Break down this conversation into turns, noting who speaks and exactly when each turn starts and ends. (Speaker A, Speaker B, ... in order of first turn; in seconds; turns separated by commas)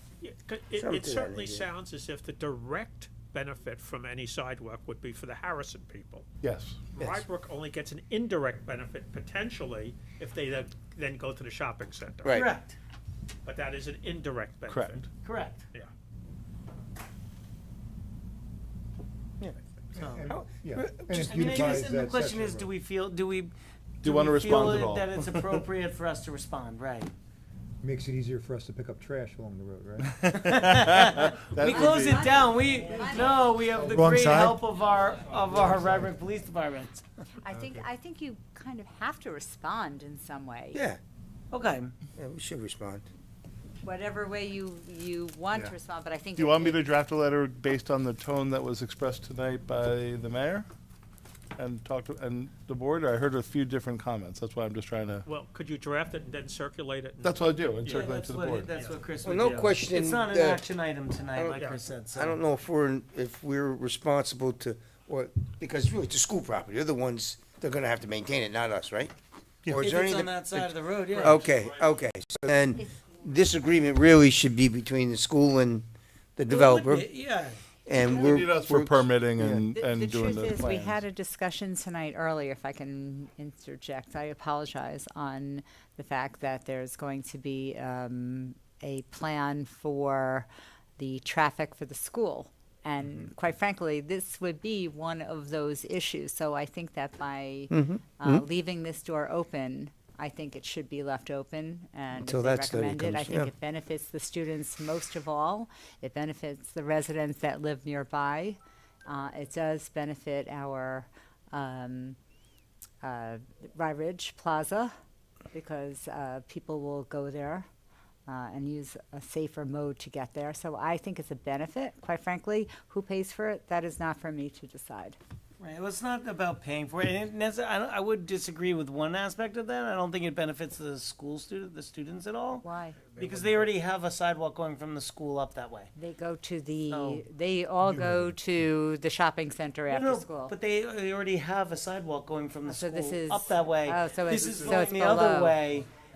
Speaker A: 0.2-6.2, Speaker B: 0.7-1.7, Speaker C: 6.4-6.9, Speaker A: 7.0-12.4, Speaker B: 7.0-7.2, Speaker B: 12.2-12.5, Speaker D: 12.3-12.8, Speaker A: 13.5-15.1, Speaker C: 14.7-15.0, Speaker D: 15.2-15.7, Speaker E: 20.0-22.7, Speaker D: 20.0-20.4, Speaker B: 20.2-21.5, Speaker D: 21.1-23.5, Speaker C: 24.0-25.1, Speaker D: 24.0-27.1, Speaker E: 27.8-30.2, Speaker D: 30.3-37.0, Speaker C: 30.3-32.2, Speaker F: 31.6-33.6, Speaker E: 33.8-34.6, Speaker F: 37.4-40.8, Speaker B: 40.7-41.0, Speaker D: 41.5-41.9, Speaker B: 42.2-43.0, Speaker F: 43.8-46.8, Speaker C: 46.4-50.7, Speaker C: 51.6-55.2, Speaker A: 55.2-58.1, Speaker C: 57.2-58.7, Speaker D: 57.9-62.4, Speaker A: 58.8-59.7, Speaker B: 59.2-60.6, Speaker B: 61.3-61.6, Speaker A: 61.5-61.8, Speaker B: 62.1-69.1, Speaker B: 69.7-70.7, Speaker D: 69.7-71.5, Speaker B: 71.2-75.8, Speaker B: 76.4-77.1, Speaker D: 76.5-77.6, Speaker B: 77.9-79.6, Speaker C: 78.1-81.0, Speaker F: 79.6-90.5, Speaker F: 91.0-112.2, Speaker B: 97.7-98.5, Speaker B: 102.2-103.5, Speaker F: 113.0-114.9, Speaker F: 115.5-117.7, Speaker F: 118.3-125.2, Speaker D: 125.6-135.9, Speaker F: 132.6-133.1, Speaker F: 136.0-140.5, Speaker D: 136.9-137.2, Speaker D: 139.9-145.9, Speaker F: 142.7-145.6